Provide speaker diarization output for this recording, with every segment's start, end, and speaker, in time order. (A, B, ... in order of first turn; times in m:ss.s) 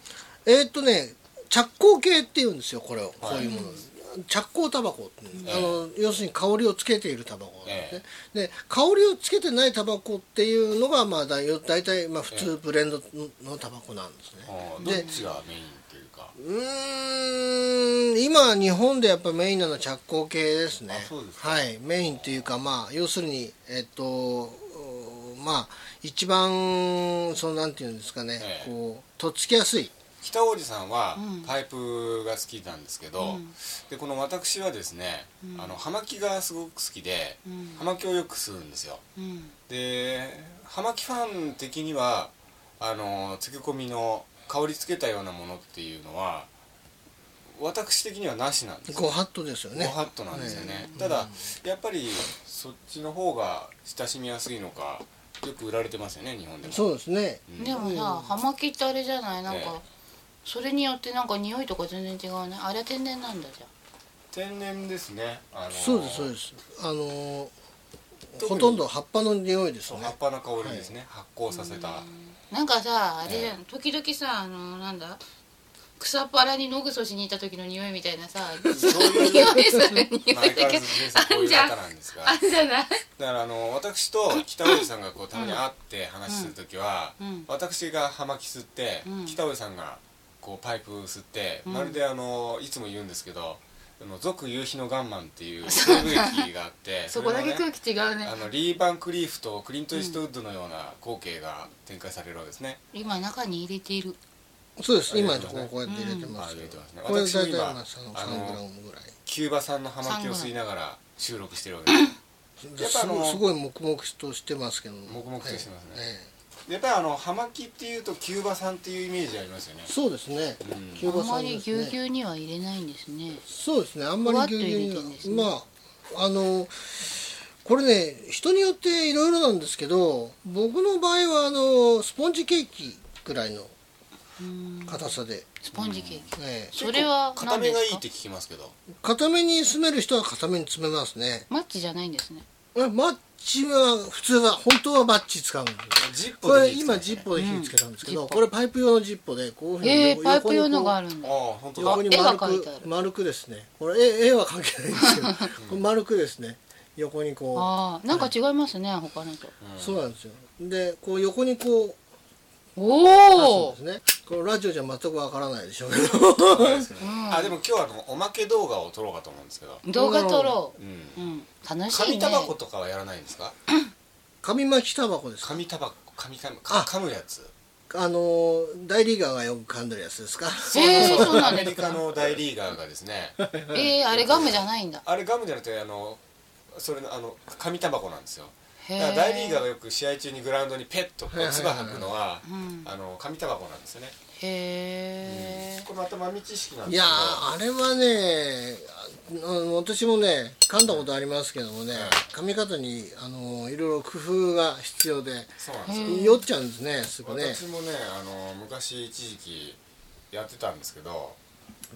0:00.4-0:15.1 A
0:03.2-0:03.5 B
0:03.4-0:03.8 C
0:05.4-0:05.7 C
0:05.5-0:05.8 B
0:07.6-0:08.0 B
0:14.5-0:16.3 B
0:14.8-0:15.3 C
0:16.4-0:29.9 A
0:20.9-0:21.7 B
0:28.4-0:28.7 B
0:30.2-0:39.0 B
0:31.2-0:31.5 C
0:33.2-0:33.5 C
0:35.4-0:35.8 C
0:37.5-0:37.8 C
0:39.2-0:39.6 C
0:39.7-0:46.5 B
0:47.6-0:49.2 B
0:48.9-0:51.5 A
0:49.7-0:56.9 B
0:50.3-0:51.0 C
0:56.6-0:58.3 A
0:57.5-0:57.8 B
0:57.6-0:59.8 C
0:59.5-0:59.8 B
1:00.4-1:03.7 C
1:04.3-1:06.3 B
1:05.7-1:07.5 A
1:08.3-1:10.8 A
1:08.4-1:08.8 B
1:09.9-1:12.0 B
1:11.5-1:15.2 C
1:13.2-1:13.6 B
1:16.0-1:23.0 C
1:18.6-1:19.7 B
1:18.9-1:19.4 A
1:20.2-1:22.4 B
1:23.2-1:37.6 B
1:25.3-1:25.6 C
1:26.3-1:26.5 C
1:27.2-1:27.5 C
1:29.1-1:29.4 C
1:31.7-1:32.0 C
1:35.7-1:36.5 C
1:37.1-1:38.4 C
1:38.2-1:42.8 B
1:42.9-1:44.2 C
1:44.8-1:49.2 A
1:45.1-1:45.7 B
1:45.9-1:46.4 C
1:46.4-1:48.6 B
1:49.3-1:52.1 B
1:50.0-1:50.5 C
1:52.6-1:56.3 A
1:52.8-1:53.4 B
1:55.1-1:56.1 B
1:56.7-1:59.9 B
1:59.9-2:02.0 A
2:00.6-2:01.1 B
2:01.0-2:03.4 C
2:03.5-2:13.7 A
2:04.2-2:05.5 C
2:14.4-2:18.0 C
2:14.9-2:15.5 A
2:15.7-2:18.8 B
2:16.4-2:16.7 A
2:19.0-2:21.5 A
2:21.5-2:22.4 C
2:22.8-2:31.0 A
2:26.0-2:27.3 B
2:27.4-2:28.4 C
2:29.8-2:32.9 C
2:31.2-2:32.0 B
2:31.8-2:38.3 A
2:37.6-2:39.5 C
2:39.6-2:40.0 B
2:39.8-2:42.0 A
2:42.8-2:43.8 C
2:43.3-2:46.9 A
2:46.5-2:49.8 B
2:47.0-2:47.6 C
2:49.8-2:52.5 C
2:49.9-2:50.6 A
2:50.8-2:51.2 B
2:51.9-2:53.6 B
2:54.4-2:55.6 A
2:55.4-2:57.5 B
2:57.9-3:01.6 A
3:00.7-3:02.0 C
3:00.8-3:03.4 B
3:03.4-3:03.9 A
3:03.7-3:05.0 C
3:04.1-3:06.2 B
3:06.7-3:14.2 B
3:08.8-3:09.6 C
3:11.3-3:12.2 A
3:12.4-3:12.9 C
3:14.4-3:15.9 C
3:15.2-3:17.4 B
3:16.9-3:27.6 A
3:21.9-3:22.2 B
3:25.6-3:26.3 B
3:25.9-3:26.4 C
3:27.2-3:29.8 B
3:30.3-3:31.4 B